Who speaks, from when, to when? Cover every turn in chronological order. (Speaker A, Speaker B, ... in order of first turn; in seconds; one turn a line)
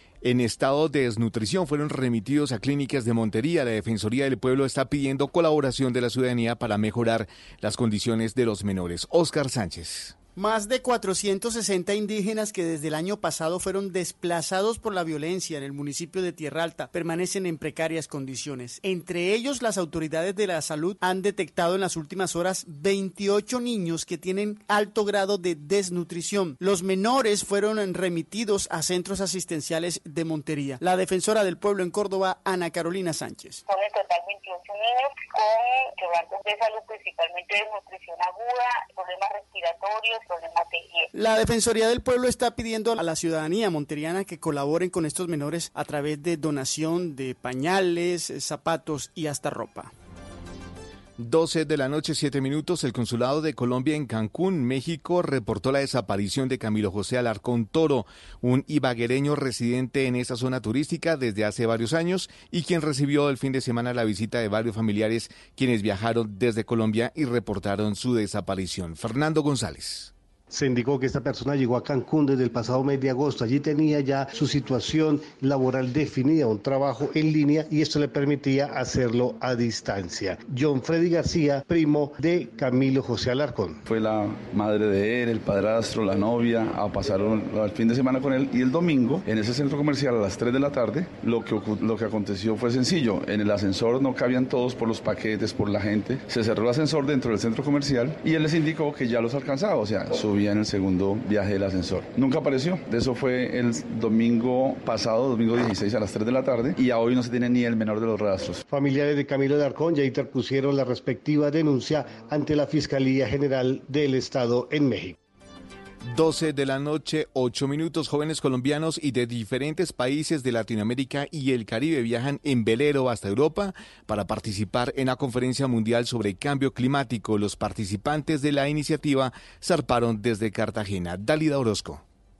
Speaker A: 0.2-10.2
Speaker B: 10.3-33.6
Speaker C: 33.7-41.1
Speaker B: 41.1-49.9
Speaker A: 51.2-70.1
Speaker D: 70.5-83.8
Speaker E: 83.8-108.6
Speaker D: 108.7-115.2
Speaker A: 116.1-132.0